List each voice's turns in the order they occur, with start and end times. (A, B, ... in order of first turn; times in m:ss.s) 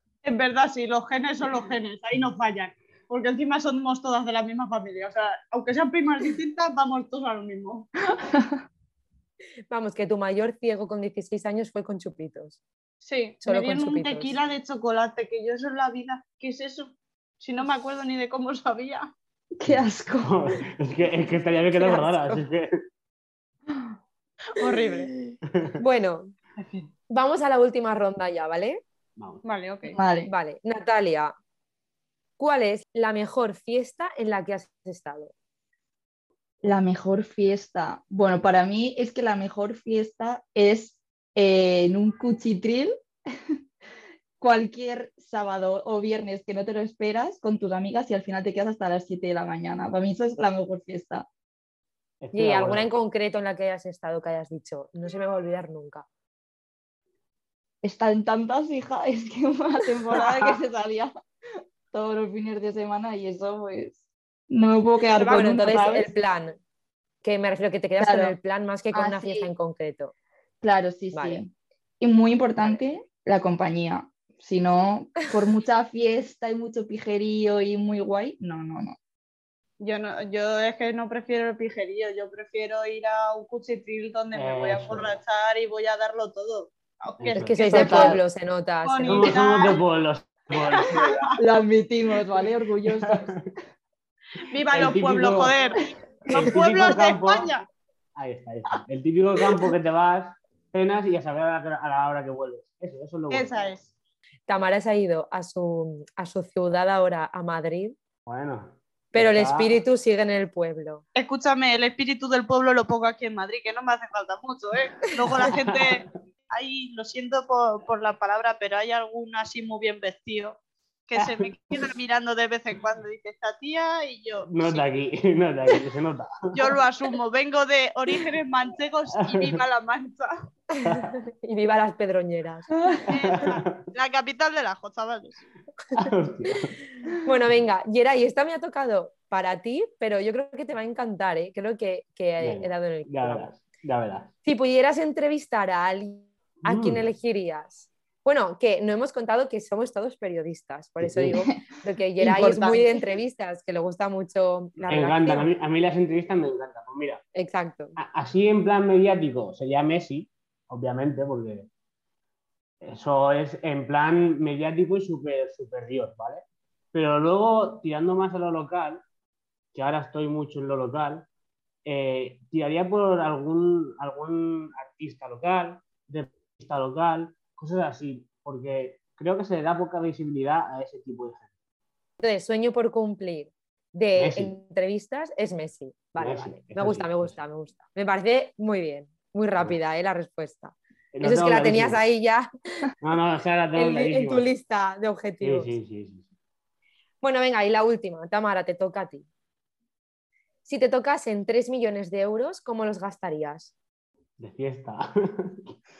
0:00.2-0:07.9 A
0:08.2-0:08.6 B
0:09.7-0:12.6 C
0:13.0-0:19.1 A
0:13.4-0:14.4 C
0:19.6-0:20.4 B
0:19.6-0:22.8 D
0:21.7-0:22.4 C
0:24.5-0:25.1 A
0:25.5-0:25.8 D
0:25.8-0:26.3 C
0:26.6-0:26.9 A
0:27.1-0:28.8 C
0:29.2-0:29.4 D
0:29.4-0:30.0 A
0:29.9-0:30.3 B
0:30.2-0:31.3 C
0:32.4-0:35.3 C
0:36.6-0:42.9 B
0:44.4-0:51.2 B
0:52.2-0:52.9 D
0:52.3-0:56.0 C
0:57.8-1:01.1 B
1:01.9-1:04.0 B
1:04.5-1:06.1 B
1:05.2-1:06.6 C
1:07.2-1:10.1 C
1:08.0-1:08.4 B
1:08.9-1:09.5 B
1:10.6-1:19.0 B
1:11.1-1:11.4 C
1:19.8-1:28.2 A
1:24.3-1:25.2 D
1:27.2-1:28.2 D
1:27.3-1:29.3 C
1:27.7-1:28.2 B
1:28.8-1:29.8 A
1:29.0-1:31.2 D
1:30.6-1:31.2 A
1:31.4-1:33.4 B
1:32.9-1:33.4 D
1:34.4-1:37.6 A
1:34.7-1:35.5 D
1:36.3-1:37.5 D
1:38.2-1:43.7 D
1:43.3-1:43.9 A
1:44.5-1:47.9 C
1:48.2-1:49.8 D
1:49.1-1:51.0 C
1:51.2-2:04.8 A
1:55.4-1:56.0 D
2:04.5-2:06.8 D
2:06.5-2:10.3 A
2:09.2-2:09.6 D
2:10.8-2:12.7 C
2:10.8-2:11.1 D
2:13.1-2:15.4 A
2:13.1-2:13.8 D
2:15.9-2:16.8 D
2:17.2-2:23.5 C
2:22.4-2:24.3 D
2:24.4-2:35.5 C
2:26.6-2:27.0 D
2:31.0-2:31.4 D
2:32.2-2:33.0 B
2:34.9-2:37.2 D
2:37.3-2:38.0 C
2:38.0-2:41.7 D
2:42.8-2:49.0 D
2:49.7-2:51.3 D
2:51.8-3:01.5 D
3:02.2-3:12.9 C
3:04.2-3:04.5 D
3:06.2-3:07.3 D
3:11.1-3:12.0 D
3:13.0-3:14.5 D
3:13.7-3:15.8 C
3:15.4-3:16.3 D
3:17.2-3:19.2 C
3:20.6-3:23.7 C
3:24.4-3:25.7 D